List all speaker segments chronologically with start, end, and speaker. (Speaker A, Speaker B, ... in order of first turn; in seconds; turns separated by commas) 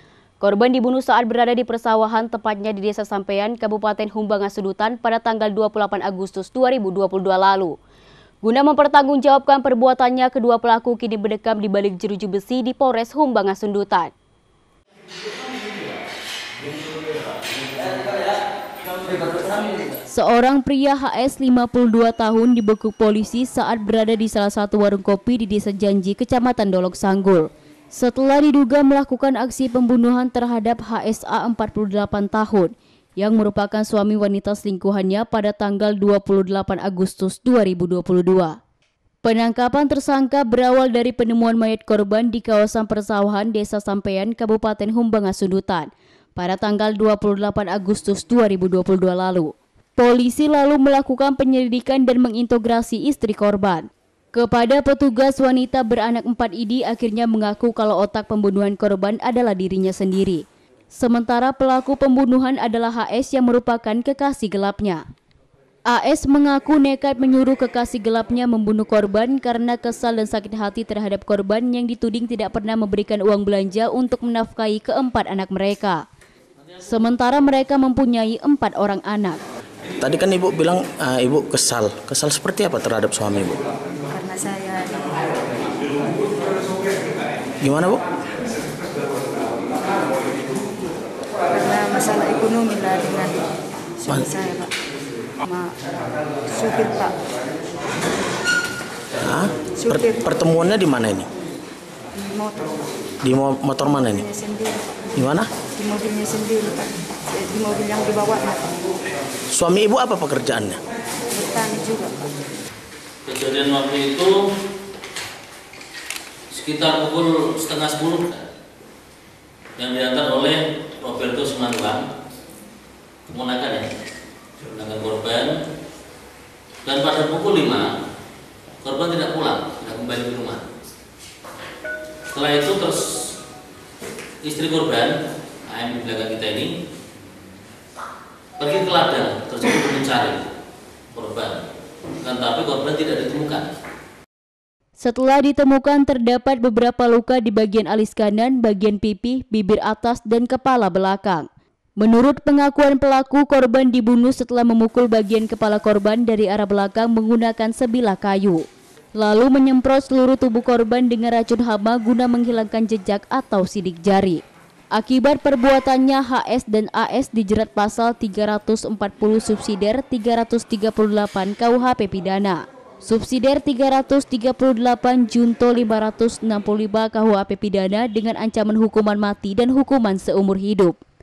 Speaker A: 0.4-7.7, Speaker A: 8.4-14.1, Speaker B: 16.7-16.9, Speaker B: 17.7-18.2, Speaker B: 19.3-19.7, Speaker A: 20.1-38.5, Speaker A: 39.2-65.0, Speaker A: 65.9-76.0, Speaker A: 76.8-79.4, Speaker C: 80.0-83.6, Speaker D: 84.1-86.4, Speaker C: 87.6-88.0, Speaker D: 91.5-94.7, Speaker D: 95.4-95.8, Speaker D: 96.5-97.2, Speaker C: 99.2-101.3, Speaker D: 99.8-100.2, Speaker D: 102.1-102.7, Speaker C: 103.2-104.3, Speaker D: 104.0-105.0, Speaker C: 105.2-105.5, Speaker D: 105.8-108.7, Speaker C: 109.5-110.8, Speaker D: 111.3-112.2, Speaker B: 113.2-114.4, Speaker B: 116.5-118.5, Speaker B: 119.8-122.1, Speaker B: 123.3-123.9, Speaker B: 124.6-125.6, Speaker B: 126.8-127.9, Speaker B: 128.8-130.7, Speaker B: 132.3-133.3, Speaker B: 134.4-135.1, Speaker B: 135.7-136.7, Speaker B: 138.6-140.4, Speaker B: 141.1-141.7, Speaker B: 142.2-143.7, Speaker A: 145.0-151.5, Speaker A: 152.0-158.6, Speaker A: 159.2-164.4, Speaker A: 164.9-180.9